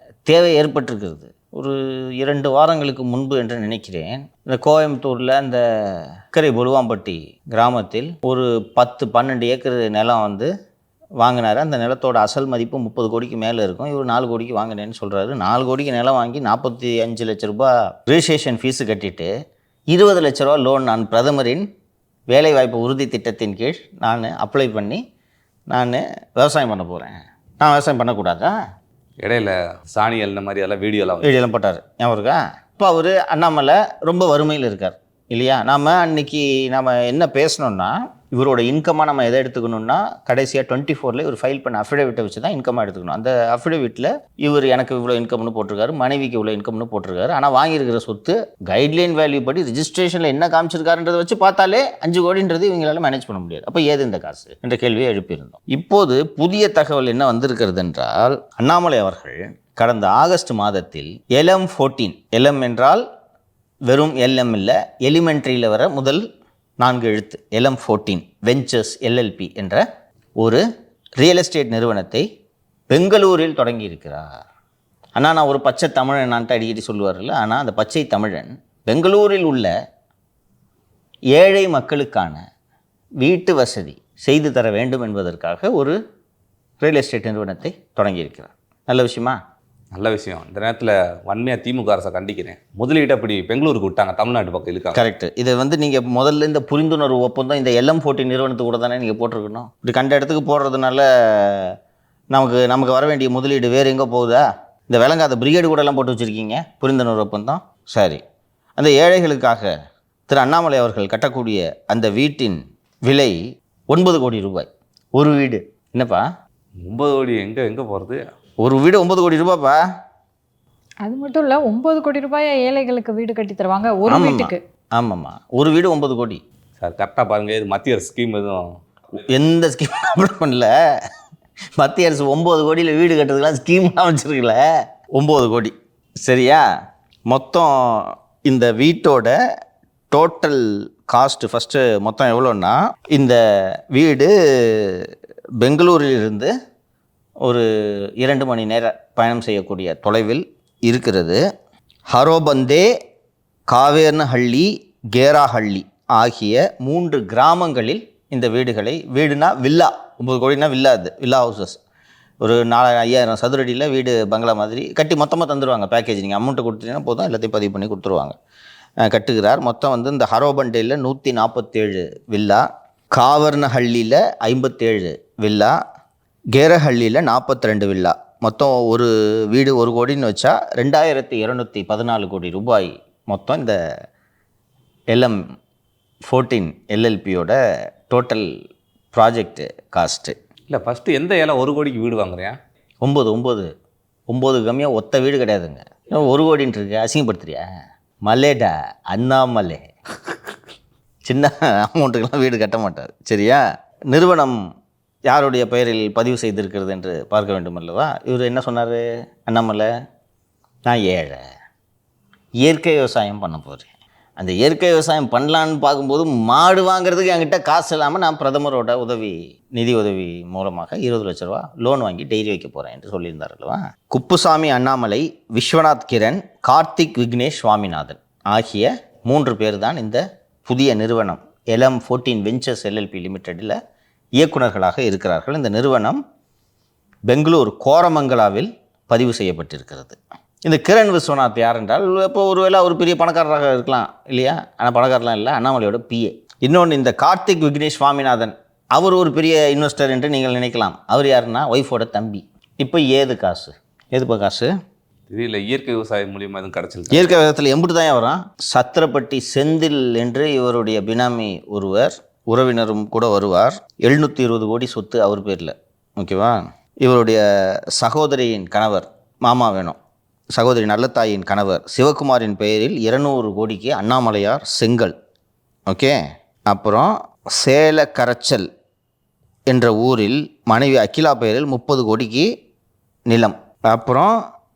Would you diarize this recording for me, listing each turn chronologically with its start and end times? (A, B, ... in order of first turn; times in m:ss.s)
0:00.3-0:10.5 A
0:11.2-0:19.3 A
0:19.9-0:21.6 A
0:22.3-0:25.0 A
0:25.7-0:28.5 A
0:29.2-0:31.3 B
0:31.2-1:03.0 A
1:03.9-1:06.2 A
1:06.8-1:09.8 A
1:11.2-1:12.2 A
1:12.9-1:14.3 A
1:15.2-1:19.7 A
1:21.4-1:22.4 A
1:23.2-1:26.0 A
1:26.8-1:29.4 A
1:29.9-1:35.0 B
1:35.0-1:41.7 A
1:42.3-1:48.2 A
1:48.8-1:49.7 A
1:50.3-1:53.4 A
1:53.9-1:56.2 A
1:56.8-1:58.2 B
1:58.6-1:59.8 A
2:01.0-2:04.6 C
2:04.0-2:06.4 A
2:06.8-2:08.7 B
2:09.3-2:10.7 A
2:11.8-2:14.6 A
2:15.2-2:16.6 A
2:17.3-2:19.4 A
2:20.1-2:26.5 A
2:27.4-2:31.4 A
2:32.1-2:32.9 A
2:33.7-2:41.8 A
2:42.4-2:48.4 A
2:49.0-2:55.8 A
2:56.5-3:03.8 A
3:05.1-3:05.4 A
3:06.3-3:07.6 A
3:08.1-3:08.5 A
3:09.1-3:10.4 A
3:10.7-3:12.6 B
3:13.0-3:13.7 A
3:14.3-3:17.6 A
3:18.2-3:19.9 A
3:21.2-3:24.6 A
3:25.3-3:29.9 A
3:30.9-3:31.4 A
3:32.6-3:53.8 A
3:54.4-3:56.2 A
3:57.3-4:14.7 A
4:15.3-4:17.3 B
4:17.1-4:30.0 A
4:30.5-4:35.1 A
4:35.9-4:36.2 A
4:36.7-4:38.7 A
4:39.7-4:42.5 A
4:43.3-4:44.4 A